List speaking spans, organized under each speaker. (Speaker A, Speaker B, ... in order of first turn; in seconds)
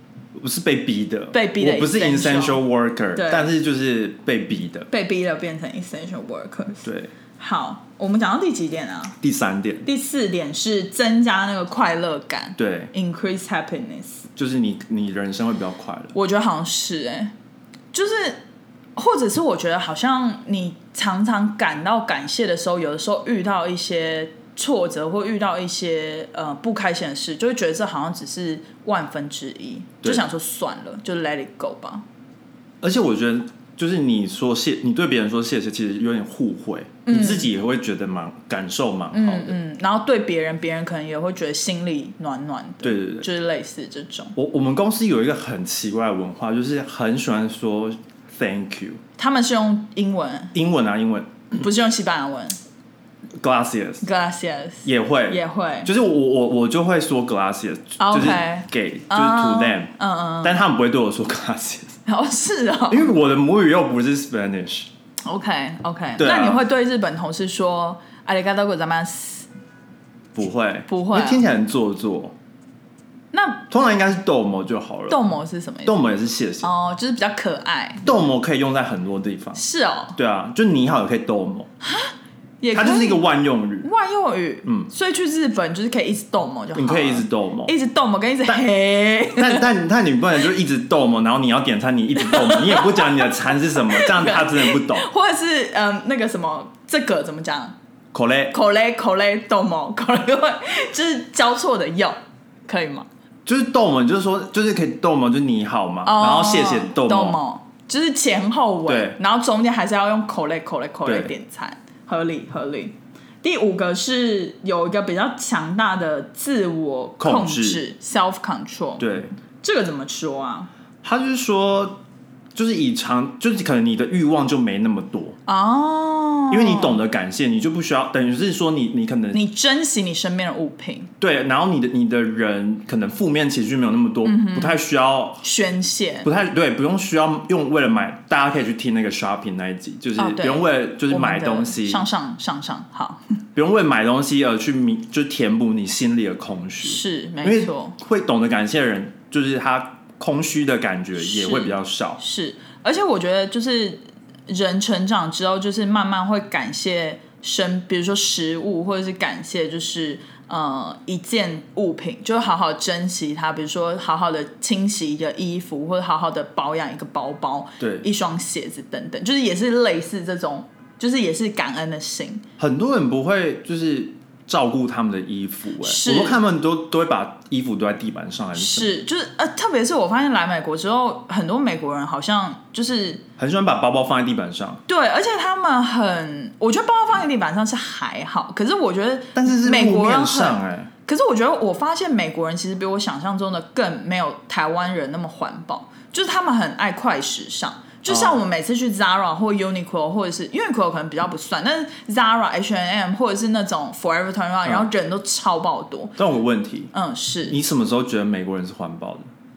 Speaker A: 0.3-4.9, 6.8-7.1, 9.2-9.9, 12.6-12.9, 14.4-16.1, 32.8-39.6, 42.8-43.3, 44.4-49.0, 50.5-51.4, 53.4-54.0, 54.9-62.0, 62.9-64.9, 66.2-66.6, 70.3-72.3, 73.7-75.2, 75.8-76.7, 78.0-79.6, 80.2-81.7, 82.7-83.9, 84.7-84.9, 86.8-87.7, 89.3-95.1, 98.1-98.5, 103.5-107.4, 108.9-109.2, 111.0-111.3, 117.2-117.8, 119.0-119.3, 121.0-122.0, 122.5-125.4, 126.5-129.4, 131.2-135.4, 136.2-142.1, 143.6-152.2, 167.8-168.1, 172.6-178.9, 183.4-184.8, 189.3-190.9, 198.1-198.4, 206.2-206.9, 207.5-209.3
Speaker B: 1.3-2.6, 3.1-3.5, 4.9-9.2, 9.8-14.3, 16.1-17.3, 17.9-18.4, 19.0-32.0, 37.1-37.5, 39.1-44.4, 49.2-50.6, 51.5-52.6, 54.0-55.9, 58.0-60.6, 62.1-63.1, 65.2-69.5, 70.9-71.5, 73.3-73.7, 75.1-76.0, 76.6-78.1, 79.6-80.2, 81.8-83.2, 83.8-89.7, 92.2-97.8, 98.5-102.2, 102.7-103.1, 106.0-119.1, 119.6-120.7, 125.5-127.0, 129.3-131.1, 134.2-134.8, 135.4-136.3, 140.2-143.4, 146.8-148.0, 151.2-172.4, 175.8-176.4, 178.6-183.2, 184.9-206.2, 206.9-207.6